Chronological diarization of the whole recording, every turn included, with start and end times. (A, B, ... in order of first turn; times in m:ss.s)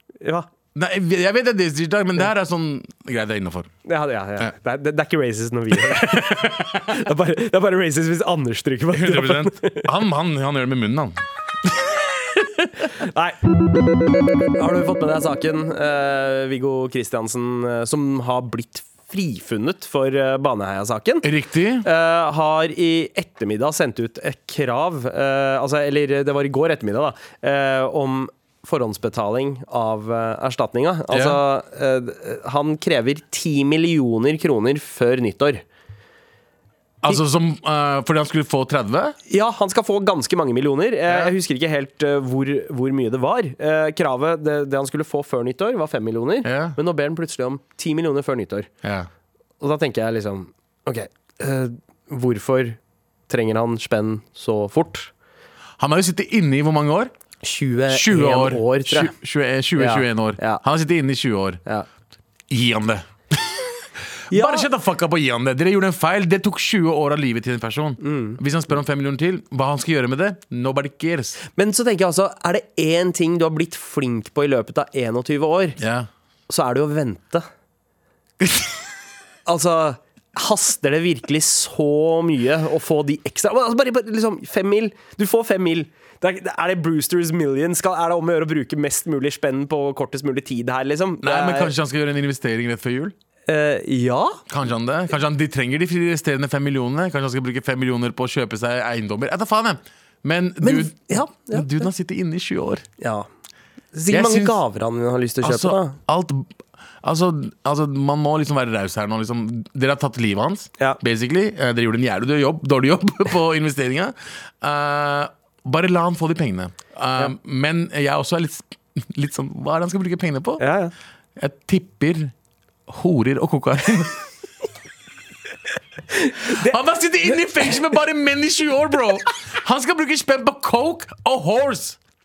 0:00.2-0:00.5 A
0:00.8-0:03.7 B
0:03.8-0:09.9 A
0:05.7-0:06.9 B
0:08.9-0:12.0 B
0:12.6-0:13.4 A
0:14.6-0:21.3 A
0:21.2-0:21.9 B
0:21.8-0:35.6 A
0:31.1-0:31.4 B
0:37.0-0:39.2 B
0:39.3-0:48.7 A
0:41.1-0:41.3 B
0:46.4-0:46.8 B
0:48.8-0:49.1 B
0:49.6-0:55.1 A
0:55.8-0:57.1 B
0:57.4-0:59.2 A
0:57.9-1:01.6 B
0:59.8-1:00.6 A
1:02.5-1:03.6 B
1:04.3-1:11.4 B
1:04.3-1:04.7 A
1:08.0-1:08.4 A
1:11.6-1:15.8 A
1:15.8-1:16.1 B
1:16.5-1:17.5 A
1:19.5-1:31.7 A
1:31.2-1:33.1 B
1:33.5-1:34.4 A
1:34.5-1:42.8 B
1:40.6-1:41.7 A
1:43.0-1:43.3 A
1:43.9-1:46.0 A
1:44.1-1:44.6 B
1:45.4-1:46.5 B
1:47.0-2:00.6 B
2:00.6-2:00.9 A
2:01.4-2:02.3 B
2:02.9-2:04.2 B
2:06.3-2:06.7 A
2:06.5-2:12.0 B